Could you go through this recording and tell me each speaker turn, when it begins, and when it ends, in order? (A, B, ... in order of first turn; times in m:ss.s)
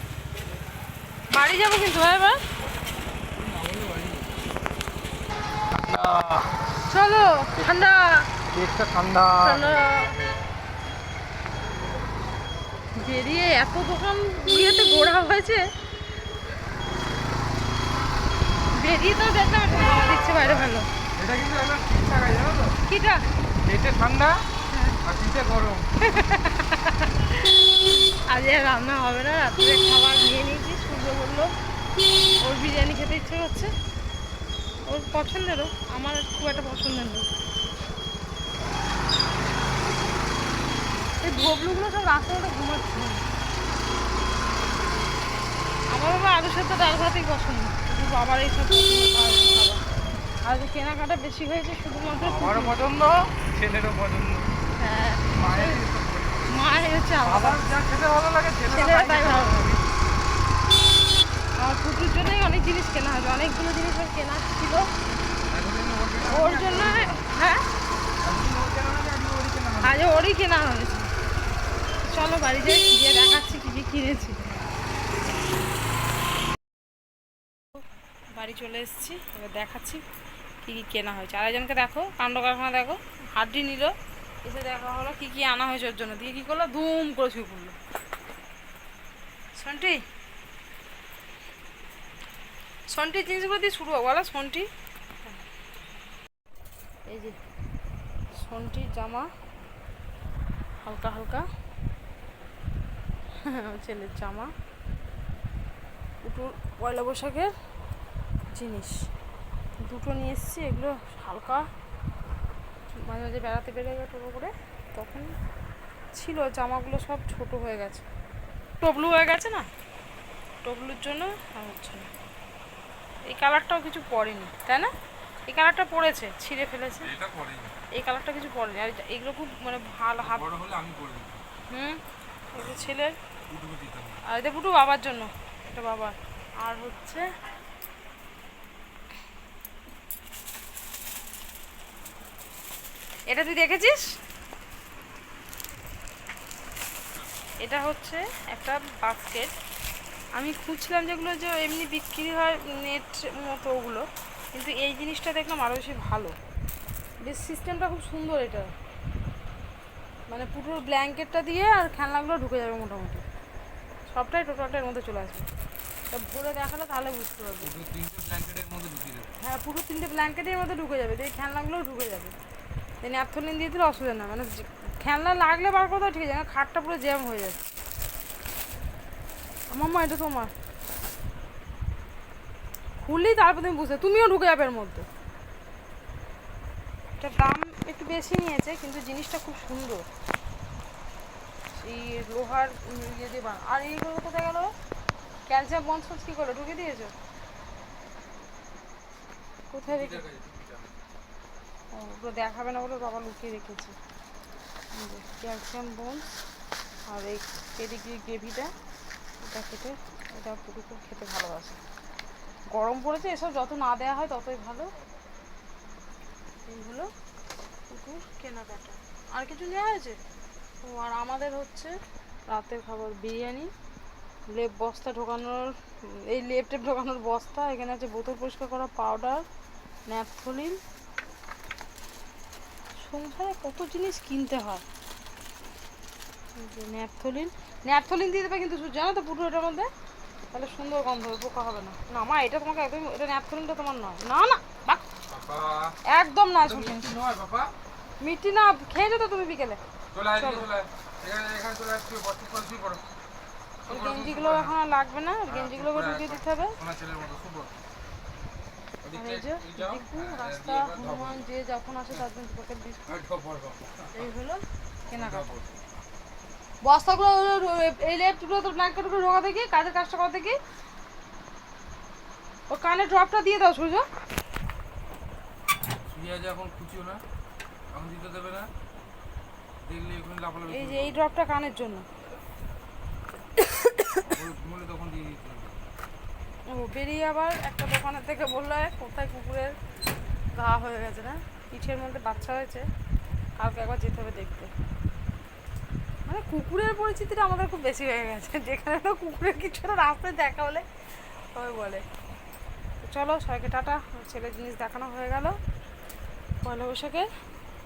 0:01.3-0:02.4 A
0:03.4-0:04.4 B
0:05.7-0:06.5 B
0:06.9-0:08.3 A
0:08.5-0:10.2 B
0:09.4-0:10.2 A
0:13.0-0:15.6 A
0:18.7-0:20.9 A
0:20.3-0:22.8 B
0:22.9-0:23.2 A
0:23.6-0:24.4 B
0:24.7-0:25.0 A
0:25.0-0:25.9 B
0:26.0-0:31.5 A
0:32.4-0:33.7 A
0:34.9-0:37.3 A
0:41.2-0:43.2 A
0:45.9-0:49.8 A
0:50.4-0:52.8 A
0:52.2-0:54.5 B
0:54.8-0:55.8 A
0:55.3-0:56.5 B
0:56.5-0:57.6 A
0:57.2-0:59.9 B
0:58.7-0:59.8 A
1:01.6-1:04.9 A
1:05.5-1:07.3 B
1:06.3-1:07.6 A
1:08.2-1:10.0 B
1:09.8-1:11.1 A
1:12.0-1:14.5 A
1:18.4-1:20.0 A
1:20.6-1:27.8 A
1:29.6-1:30.0 A
1:32.9-1:34.7 A
1:37.1-1:37.4 A
1:38.3-1:39.3 A
1:40.8-1:41.5 A
1:43.4-1:44.5 A
1:46.2-1:47.5 A
1:48.5-1:49.1 A
1:49.8-1:51.7 A
1:53.0-1:55.4 A
1:56.1-1:58.1 A
1:58.8-1:59.7 A
2:00.6-2:02.1 A
2:03.3-2:04.9 A
2:05.5-2:07.1 A
2:07.0-2:07.8 B
2:08.0-2:10.5 A
2:10.2-2:11.4 B
2:11.7-2:12.0 A
2:12.5-2:13.2 A
2:13.5-2:14.2 B
2:14.2-2:17.3 A
2:23.3-2:24.1 A
2:27.6-2:29.6 A
2:30.4-2:36.4 A
2:37.2-2:38.7 A
2:40.3-2:43.2 A
2:44.1-2:45.5 A
2:46.1-2:47.7 A
2:47.6-2:49.3 B
2:49.4-2:52.4 A
2:53.0-2:57.6 A
2:59.7-3:00.5 A
3:03.0-3:05.1 A
3:07.2-3:10.1 A
3:11.8-3:14.7 A
3:15.5-3:17.1 A
3:19.7-3:20.2 A
3:19.9-3:20.9 B
3:21.9-3:24.0 A
3:24.9-3:26.3 A
3:27.1-3:28.7 A
3:29.4-3:31.8 A
3:32.7-3:34.9 A
3:36.7-3:37.1 A
3:37.9-3:40.2 A
3:40.8-3:42.0 A
3:42.5-3:43.7 A
3:44.5-3:49.5 A
3:50.1-3:50.8 A
3:53.0-3:54.8 A
3:56.6-3:59.9 A
4:00.5-4:05.0 A
4:05.3-4:06.0 B
4:06.0-4:07.1 A
4:06.6-4:07.7 B
4:08.2-4:09.8 A
4:10.1-4:13.0 B
4:10.4-4:10.7 A
4:13.8-4:14.7 B
4:13.9-4:16.8 A
4:15.5-4:17.7 B
4:19.0-4:21.5 B
4:19.1-4:23.0 A
4:23.1-4:24.3 B
4:24.1-4:25.5 A
4:25.1-4:25.8 B
4:26.8-4:30.6 A
4:32.7-4:34.1 A
4:36.1-4:37.2 B
4:37.9-4:38.7 B
4:39.8-4:41.2 B
4:40.7-4:42.1 A
4:43.8-4:44.2 A
4:44.3-4:45.8 B
4:46.7-4:49.8 A
4:50.5-4:52.9 A
4:53.6-4:54.7 A
4:56.3-5:00.9 A
5:01.5-5:02.0 A
5:03.0-5:05.6 A
5:06.6-5:07.3 A